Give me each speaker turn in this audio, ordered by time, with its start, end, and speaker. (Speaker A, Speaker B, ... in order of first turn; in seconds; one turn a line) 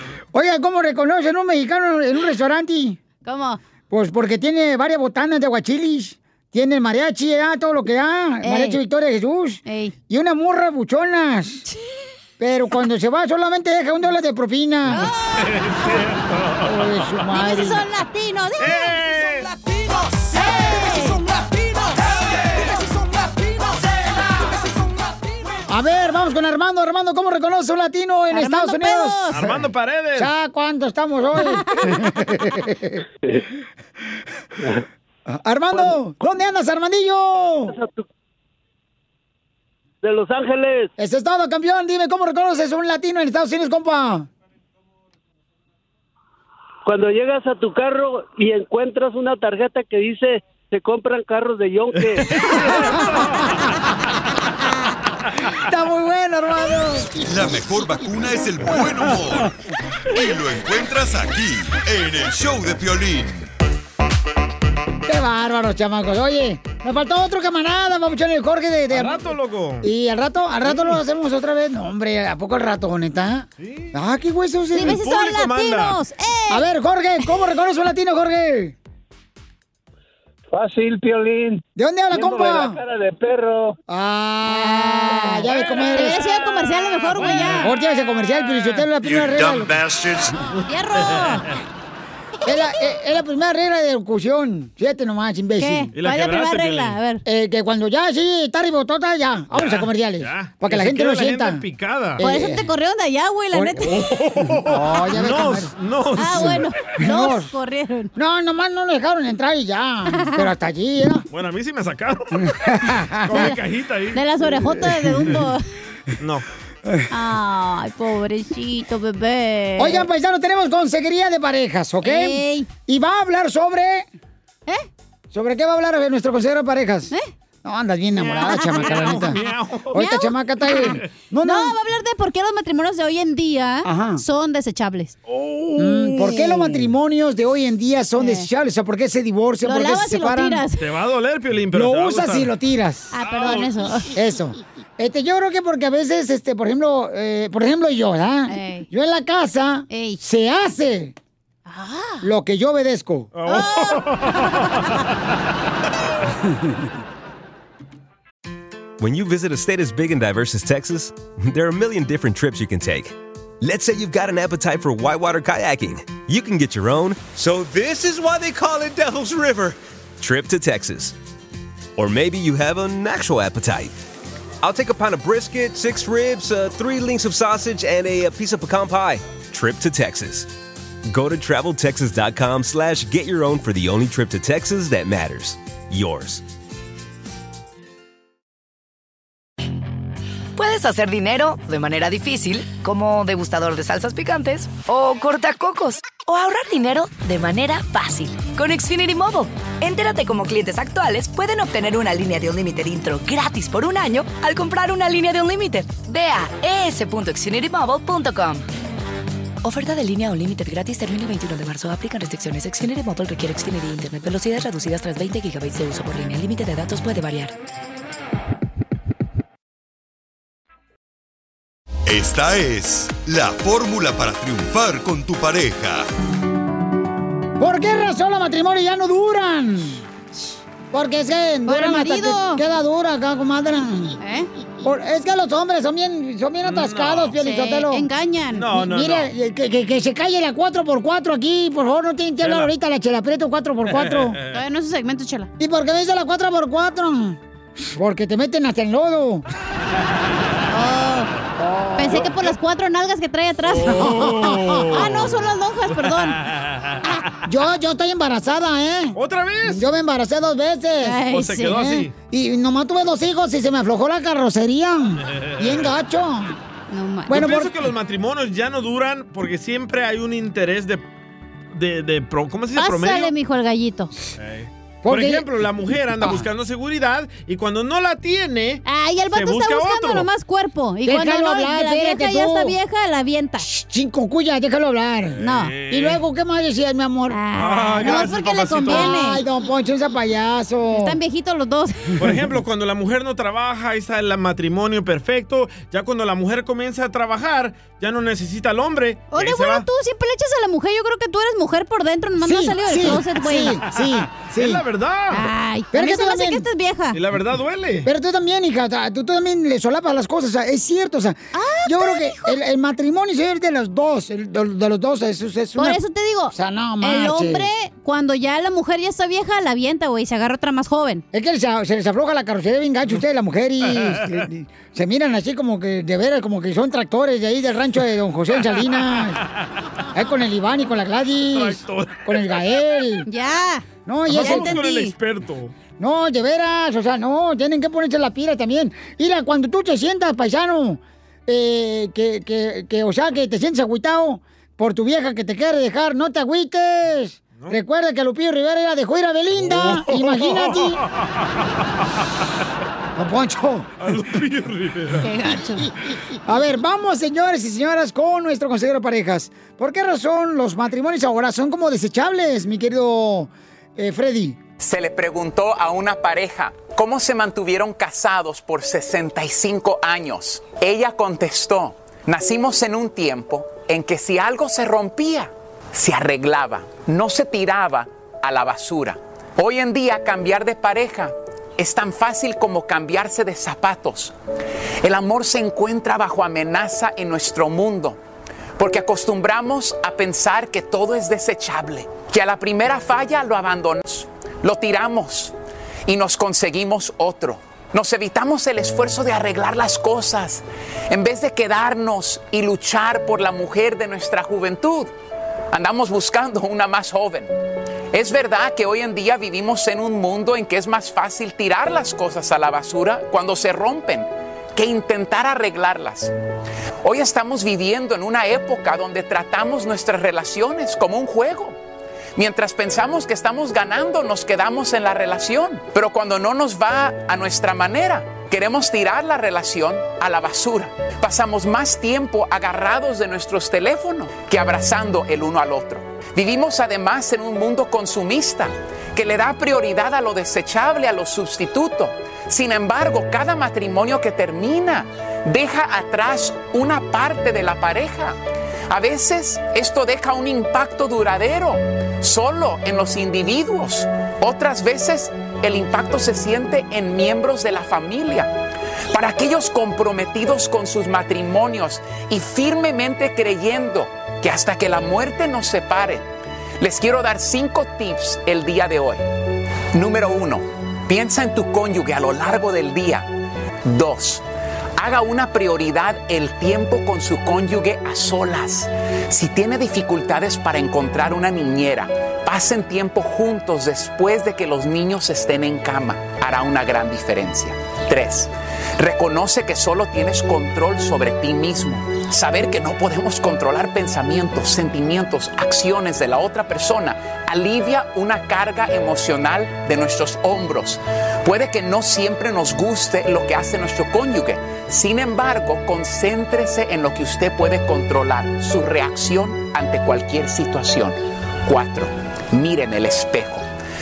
Speaker A: 0.3-3.0
Speaker B: 3.2-3.6
Speaker A: 3.9-11.6
Speaker B: 8.4-8.8
Speaker B: 9.7-9.9
Speaker A: 12.4-15.1
Speaker B: 14.9-15.2
Speaker C: 14.9-17.1
Speaker A: 16.6-17.8
Speaker B: 17.3-19.0
Speaker C: 18.6-19.6
Speaker B: 20.3-21.2
Speaker A: 25.7-29.6
Speaker B: 28.3-29.4
Speaker C: 29.3-30.3
Speaker A: 30.2-33.0
Speaker A: 35.3-37.8
Speaker D: 37.7-38.1
Speaker D: 40.0-40.9
Speaker A: 41.0-44.3
Speaker D: 46.9-52.3
Speaker C: 52.2-53.6
Speaker A: 52.7-53.3
Speaker A: 55.7-57.2
Speaker E: 57.2-59.5
Speaker E: 60.1-63.5
Speaker A: 65.1-69.2
Speaker C: 68.9-69.9
Speaker A: 69.8-75.0
Speaker C: 70.7-71.0
Speaker C: 73.6-73.9
Speaker B: 74.7-76.7
Speaker C: 74.8-76.0
Speaker A: 76.5-78.8
Speaker D: 80.5-83.8
Speaker A: 81.8-82.8
Speaker A: 83.9-86.2
Speaker B: 84.5-87.7
Speaker C: 85.8-87.7
Speaker A: 87.6-89.8
Speaker C: 88.3-88.9
Speaker B: 90.7-91.5
Speaker A: 92.4-95.9
Speaker B: 95.6-97.2
Speaker C: 96.0-97.0
Speaker A: 97.2-101.6
Speaker C: 99.5-102.2
Speaker A: 102.2-102.7
Speaker B: 102.2-104.0
Speaker A: 103.5-103.9
Speaker C: 103.9-106.7
Speaker A: 104.7-105.7
Speaker B: 106.2-108.1
Speaker A: 106.2-107.5
Speaker A: 108.2-111.3
Speaker C: 111.3-114.2
Speaker A: 112.7-113.5
Speaker B: 114.1-115.6
Speaker A: 114.7-115.3
Speaker C: 116.2-116.5
Speaker B: 117.1-120.0
Speaker A: 119.8-124.1
Speaker B: 122.0-122.7
Speaker A: 125.3-127.1
Speaker A: 127.6-129.4
Speaker C: 128.2-130.0
Speaker B: 128.5-130.3
Speaker A: 129.9-131.8
Speaker B: 131.4-135.2
Speaker A: 133.8-134.2
Speaker C: 135.3-136.8
Speaker A: 135.8-140.6
Speaker B: 138.2-138.5
Speaker B: 139.7-140.8
Speaker C: 140.8-142.5
Speaker A: 141.7-143.1
Speaker B: 143.1-144.1
Speaker C: 143.2-143.7
Speaker A: 144.2-151.2
Speaker B: 148.5-148.9
Speaker B: 149.9-150.2
Speaker B: 151.7-152.2
Speaker A: 152.2-153.3
Speaker C: 153.3-154.8
Speaker B: 153.5-154.6
Speaker F: 159.0-171.2
Speaker F: 172.0-173.9
Speaker F: 174.6-180.5
Speaker F: 181.1-186.4
Speaker G: 190.6-208.6
Speaker G: 209.6-217.6
Speaker E: 222.1-226.1
Speaker A: 227.6-230.0
Speaker A: 230.9-234.2
Speaker B: 231.7-232.6
Speaker B: 234.2-234.5
Speaker A: 234.8-238.1
Speaker C: 236.6-237.3
Speaker B: 237.4-238.7
Speaker C: 238.5-239.3
Speaker A: 238.7-244.4
Speaker C: 242.4-242.7
Speaker C: 243.9-244.5
Speaker B: 244.5-245.5
Speaker A: 245.6-249.4
Speaker B: 250.7-251.3
Speaker A: 251.6-252.3
Speaker B: 252.0-254.1
Speaker C: 253.7-255.4
Speaker A: 254.0-255.0
Speaker B: 254.9-256.4
Speaker C: 256.0-257.1
Speaker A: 257.4-266.6
Speaker C: 259.1-259.8
Speaker B: 261.0-261.8
Speaker C: 261.3-262.1
Speaker C: 265.3-265.9
Speaker B: 266.9-267.4
Speaker A: 267.3-267.7
Speaker C: 267.3-271.1
Speaker C: 271.7-273.3
Speaker B: 272.8-274.1
Speaker C: 274.4-280.3
Speaker A: 275.0-275.5
Speaker A: 276.2-276.4
Speaker B: 278.9-283.7
Speaker A: 281.1-282.8
Speaker A: 283.6-287.4
Speaker C: 285.4-286.2
Speaker B: 285.4-285.7
Speaker B: 287.3-289.4
Speaker C: 287.6-289.2
Speaker A: 288.0-288.3
Speaker A: 288.9-291.2
Speaker B: 290.9-292.1
Speaker C: 292.2-299.9
Speaker B: 299.3-303.8
Speaker A: 302.4-304.8
Speaker C: 304.5-305.5
Speaker B: 305.3-307.2
Speaker A: 305.9-306.7
Speaker C: 307.1-308.1
Speaker A: 308.1-316.0
Speaker B: 311.5-312.6
Speaker B: 315.8-321.2
Speaker A: 316.5-317.7
Speaker A: 321.3-329.4
Speaker C: 323.9-324.4
Speaker A: 330.1-333.3
Speaker C: 331.5-332.6
Speaker B: 333.3-335.1
Speaker A: 334.1-334.8
Speaker C: 334.3-335.7
Speaker A: 336.0-351.0
Speaker C: 349.6-351.3
Speaker A: 353.2-353.9
Speaker C: 354.0-355.3
Speaker B: 355.2-355.9
Speaker A: 356.5-364.6
Speaker H: 364.8-384.4
Speaker H: 385.0-388.2
Speaker H: 388.8-395.6
Speaker H: 396.1-405.1
Speaker H: 405.7-407.5
Speaker H: 408.1-416.3
Speaker H: 417.0-421.8
Speaker H: 422.4-448.4
Speaker H: 448.9-458.5
Speaker H: 459.1-466.3
Speaker H: 466.8-469.2
Speaker H: 469.9-473.3
Speaker H: 473.9-474.4
Speaker H: 475.0-513.7